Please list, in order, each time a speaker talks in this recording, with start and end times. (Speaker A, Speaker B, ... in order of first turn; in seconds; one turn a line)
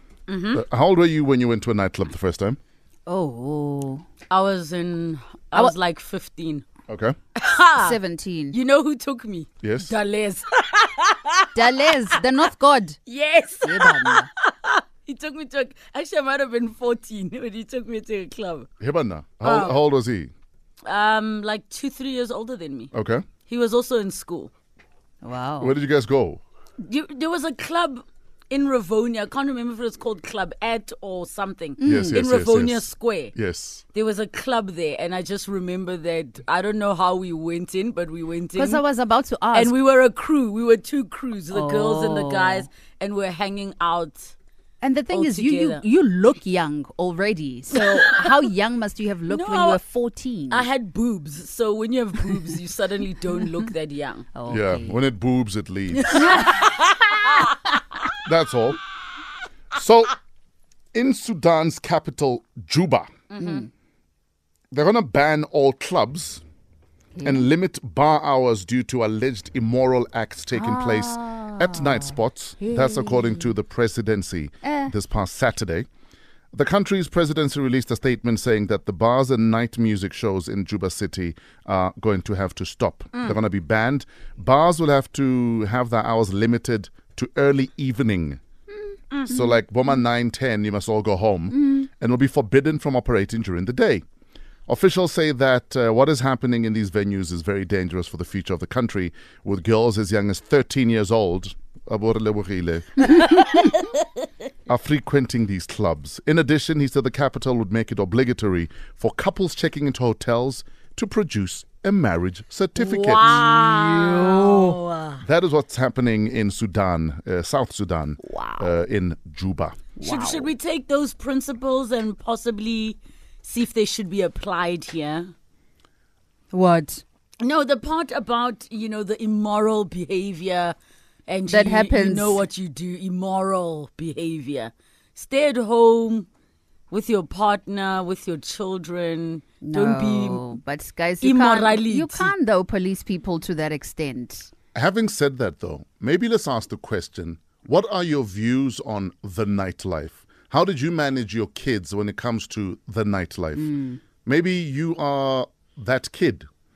Speaker A: 0.3-0.6
Speaker B: 0.5-2.6
Speaker C: 3.1-4.0
Speaker A: 4.3-6.7
Speaker B: 6.9-7.2
Speaker A: 7.3-8.0
Speaker C: 7.8-8.6
Speaker A: 8.5-12.3
Speaker B: 9.6-9.9
Speaker C: 11.6-13.0
Speaker A: 13.1-18.7
Speaker C: 13.6-14.3
Speaker B: 18.8-20.3
Speaker A: 19.4-19.8
Speaker A: 20.9-22.9
Speaker B: 22.9-23.3
Speaker A: 23.5-24.5
Speaker C: 25.2-25.8
Speaker B: 25.6-26.4
Speaker A: 26.8-33.3
Speaker C: 31.8-32.2
Speaker B: 31.8-33.8
Speaker A: 33.9-38.8
Speaker C: 38.5-39.8
Speaker A: 39.5-44.4
Speaker C: 41.5-42.7
Speaker C: 44.8-50.7
Speaker A: 45.1-45.8
Speaker A: 47.7-48.5
Speaker A: 49.3-49.8
Speaker A: 50.5-54.3
Speaker C: 54.4-55.0
Speaker B: 54.5-56.4
Speaker A: 56.0-57.6
Speaker B: 58.2-58.8
Speaker B: 59.7-60.2
Speaker B: 60.9-63.1
Speaker A: 63.3-63.7
Speaker C: 63.4-63.7
Speaker B: 64.7-66.4
Speaker C: 67.2-67.5
Speaker B: 67.2-75.9
Speaker C: 70.5-73.5
Speaker C: 74.6-74.9
Speaker B: 76.5-88.4
Speaker A: 89.1-89.4
Speaker B: 89.3-94.0
Speaker B: 94.7-103.5
Speaker A: 103.4-103.8
Speaker B: 104.7-113.7
Speaker A: 112.8-115.2
Speaker C: 113.8-114.8
Speaker B: 115.2-119.8
Speaker C: 118.3-118.7
Speaker C: 120.0-120.5
Speaker A: 120.0-125.3
Speaker C: 126.5-127.0
Speaker A: 127.4-130.8
Speaker A: 131.3-136.3
Speaker C: 131.5-132.4
Speaker A: 136.9-140.6
Speaker C: 139.6-144.5
Speaker A: 141.2-142.3
Speaker B: 144.8-156.5
Speaker C: 153.6-154.0